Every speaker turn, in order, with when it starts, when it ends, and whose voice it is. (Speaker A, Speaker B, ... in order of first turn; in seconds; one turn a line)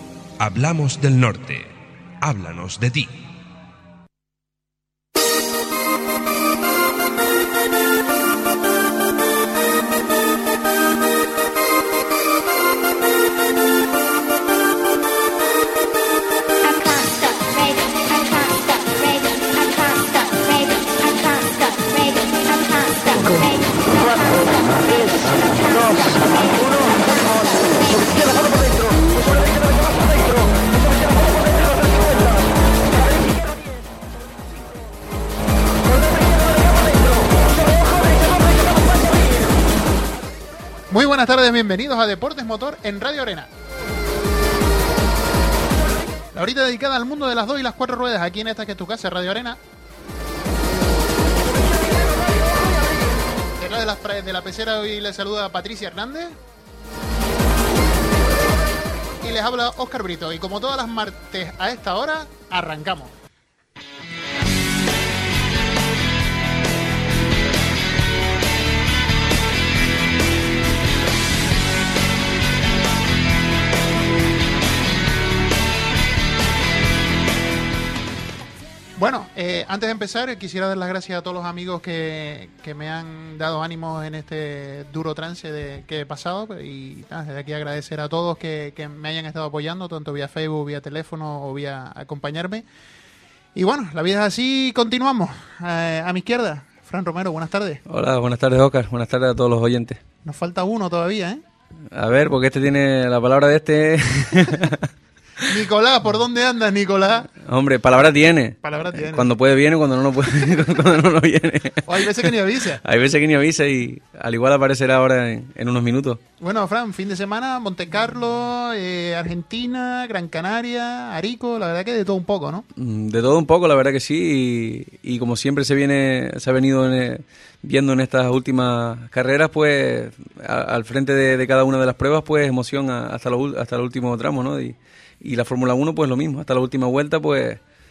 Speaker A: 0.4-3.2
Speaker B: 40.9-43.5
Speaker B: 46.3-49.6
Speaker B: 53.6-56.4
Speaker B: 59.2-63.1
Speaker B: 79.0-92.6
Speaker B: 93.5-97.8
Speaker C: 97.9-100.0
Speaker B: 100.2-101.4
Speaker C: 101.9-104.9
Speaker B: 105.5-107.3
Speaker C: 107.4-116.2
Speaker B: 108.6-109.3
Speaker B: 111.8-112.8
Speaker B: 116.4-122.7
Speaker C: 122.8-137.6